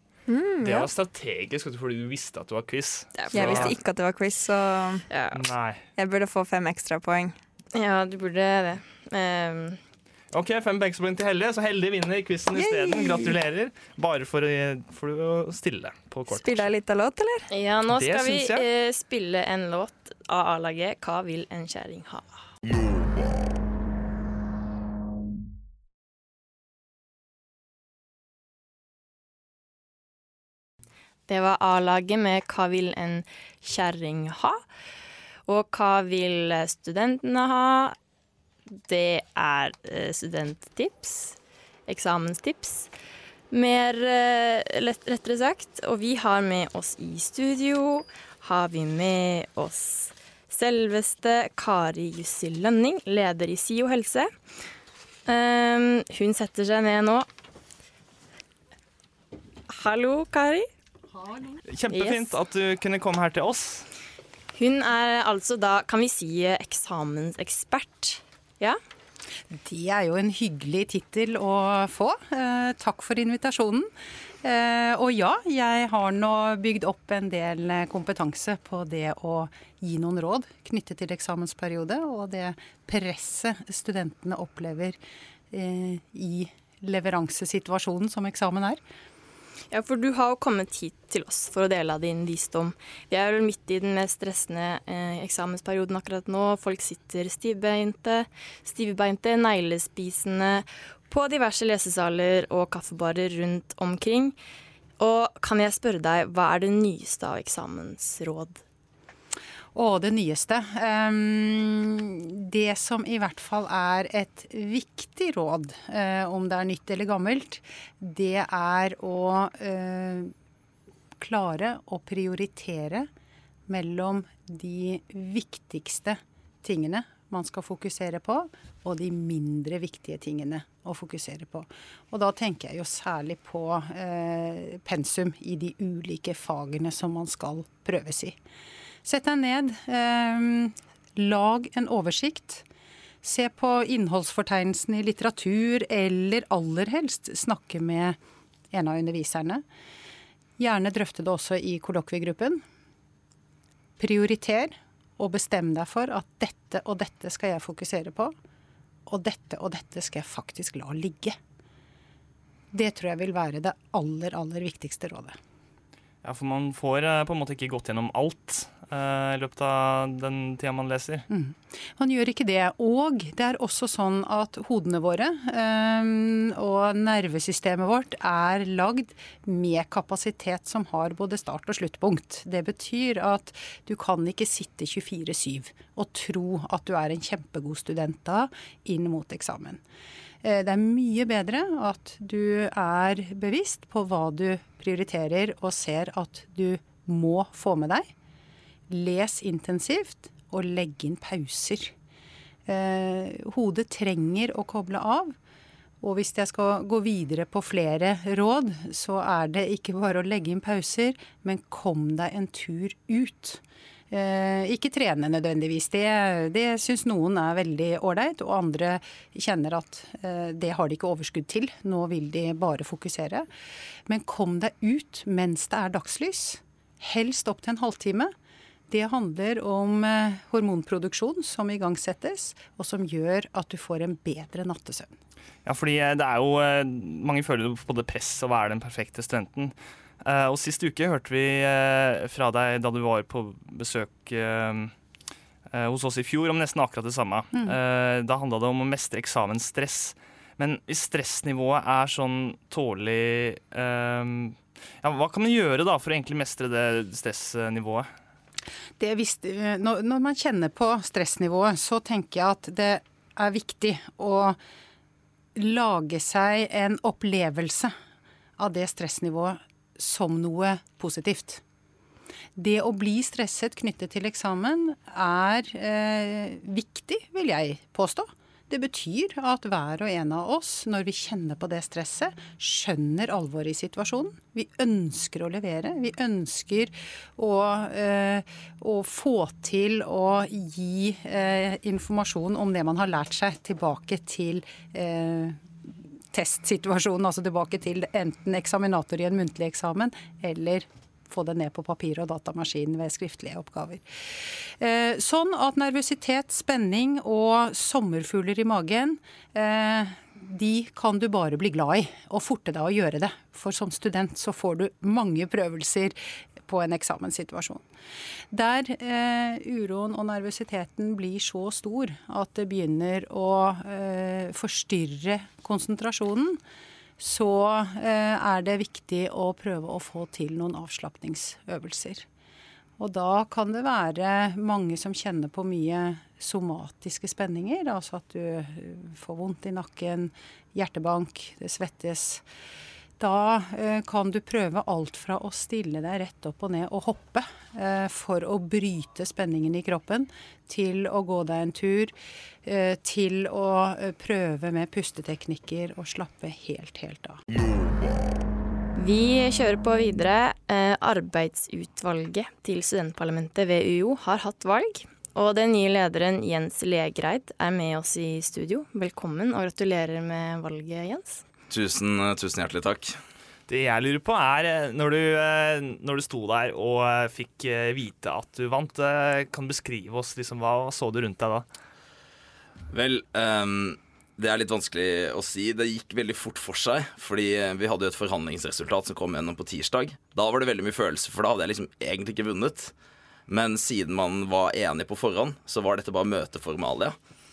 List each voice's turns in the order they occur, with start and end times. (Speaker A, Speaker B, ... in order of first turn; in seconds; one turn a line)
Speaker A: 0.3-0.9
Speaker B: 0.6-3.7
Speaker C: 3.2-3.7
Speaker A: 3.3-5.0
Speaker C: 5.1-5.4
Speaker B: 5.4-5.8
Speaker A: 6.0-7.3
Speaker C: 7.7-9.8
Speaker B: 10.3-16.7
Speaker A: 12.6-13.4
Speaker A: 16.3-17.5
Speaker C: 17.5-22.4
Speaker B: 17.9-18.6
Speaker C: 31.3-34.6
Speaker C: 35.5-38.0
Speaker C: 38.7-42.9
Speaker C: 43.5-54.3
Speaker C: 55.3-57.3
Speaker C: 59.7-60.7
Speaker B: 61.7-63.9
Speaker C: 61.9-62.4
Speaker C: 64.5-68.8
Speaker D: 69.5-73.9
Speaker D: 74.4-85.0
Speaker D: 85.5-88.8
Speaker C: 89.7-104.4
Speaker C: 105.0-108.6
Speaker D: 109.7-120.3
Speaker D: 121.2-123.1
Speaker D: 123.7-138.4
Speaker D: 139.0-142.7
Speaker D: 143.2-148.2
Speaker D: 148.7-149.7
Speaker D: 150.6-152.6
Speaker D: 154.0-158.3
Speaker D: 159.1-161.4
Speaker D: 162.7-165.4
Speaker B: 166.2-171.3
Speaker D: 171.3-189.8
Speaker D: 190.4-198.1
Speaker D: 198.9-201.9
Speaker D: 202.7-205.4
Speaker D: 206.0-223.5
Speaker D: 224.1-228.3
Speaker D: 228.9-235.2
Speaker B: 235.7-244.9
Speaker B: 245.7-258.1
Speaker D: 259.0-264.6
Speaker D: 265.6-267.9
Speaker D: 268.6-271.6
Speaker D: 272.6-317.8
Speaker D: 318.5-326.6
Speaker D: 327.2-332.3
Speaker D: 333.0-342.4
Speaker D: 343.2-357.4
Speaker C: 359.0-371.4
Speaker E: 371.7-373.2
Speaker B: 373.7-381.7
Speaker E: 382.9-392.9
Speaker E: 393.5-397.2